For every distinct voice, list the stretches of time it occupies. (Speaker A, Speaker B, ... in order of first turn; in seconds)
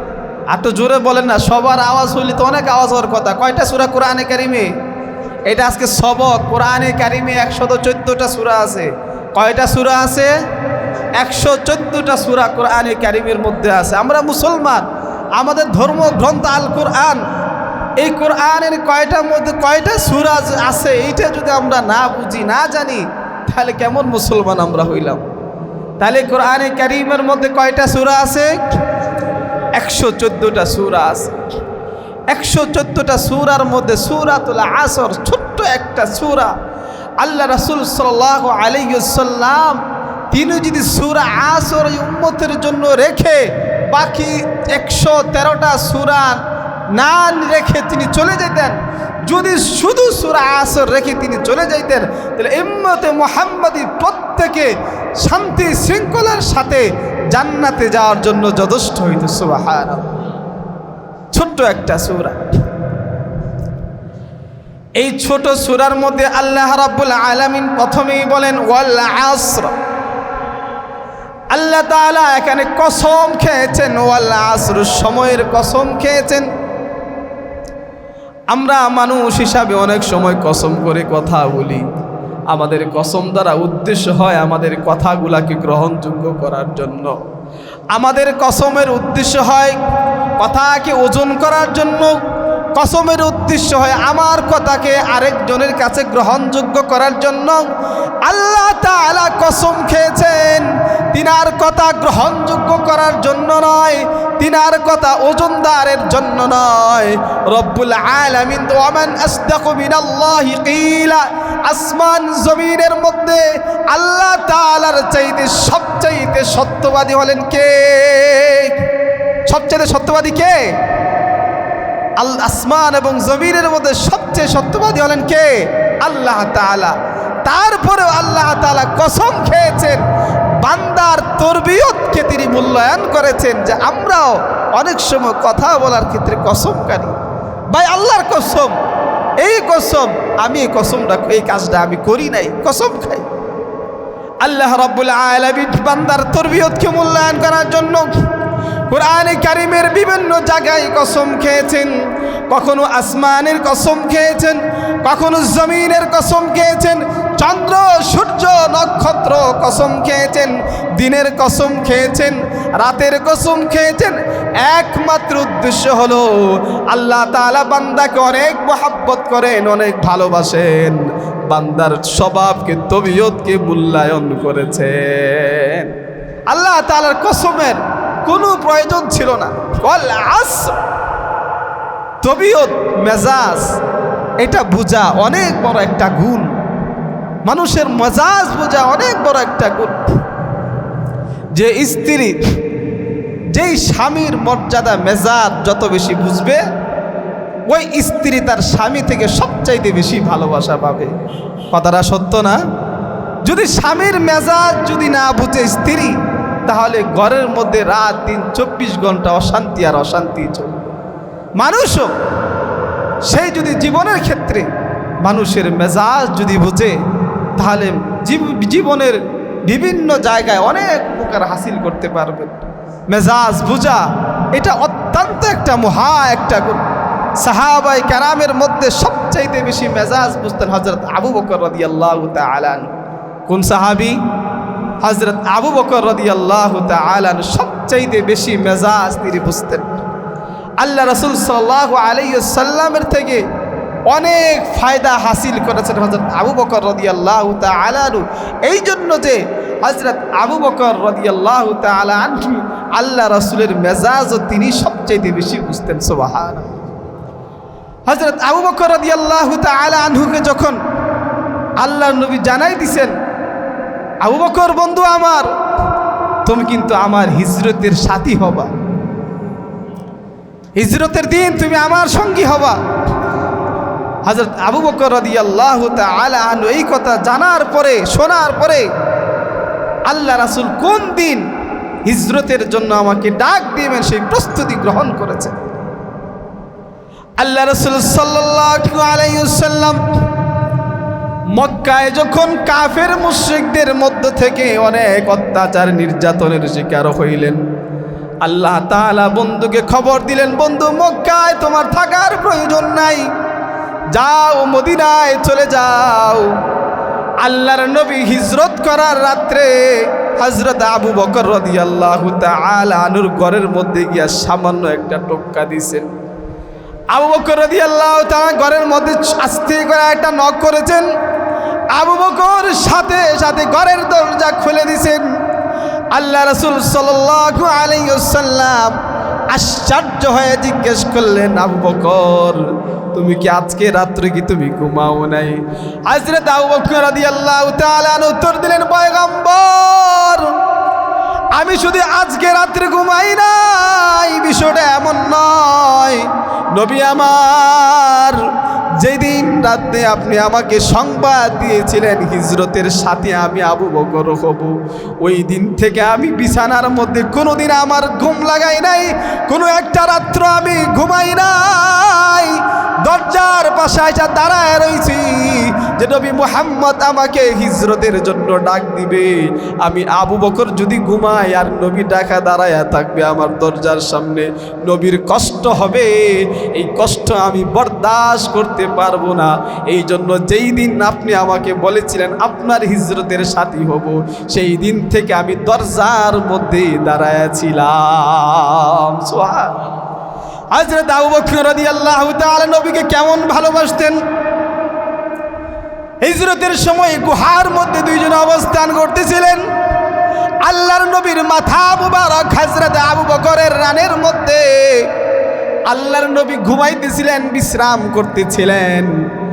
Speaker A: 0.5-4.7, 5.5-10.3, 11.2-14.8, 15.4-17.2, 18.0-25.2, 26.0-28.6, 29.8-31.4, 32.3-36.5, 37.2-46.4, 46.9-48.8, 49.3-60.2, 61.3-62.4, 65.0-69.7, 71.5-76.5, 78.5-81.8, 82.5-87.2, 87.9-89.8, 90.4-92.1, 92.8-97.6, 98.2-118.8, 119.5-120.7, 122.2-130.0, 130.6-138.8, 139.4-143.3, 144.4-148.1, 148.9-151.9, 152.5-175.9, 176.5-180.8, 182.2-183.7, 184.4-186.5, 187.5-190.0, 191.5-192.4, 193.5-196.6, 197.7-201.1, 201.7-202.6, 203.4-210.9, 211.6-212.1, 213.3-214.7, 215.2-216.9, 217.6-222.6, 223.1-224.0, 224.5-226.8, 227.4-233.0, 233.5-234.2, 235.0-239.9, 240.8-243.4, 244.1-256.7, 258.1-260.8, 261.8-263.1, 264.2-265.5, 266.4-268.7, 270.8-272.8, 274.3-278.9, 280.1-281.4, 282.1-285.6, 287.4-290.0, 291.6-297.6, 298.4-303.3, 304.1-306.5, 307.4-316.1, 317.1-321.1, 321.9-325.2, 326.1-329.0, 329.5-332.6, 333.1-340.5, 341.5-389.8, 390.7-394.2, 396.2-399.6, 400.6-405.1, 405.9-409.2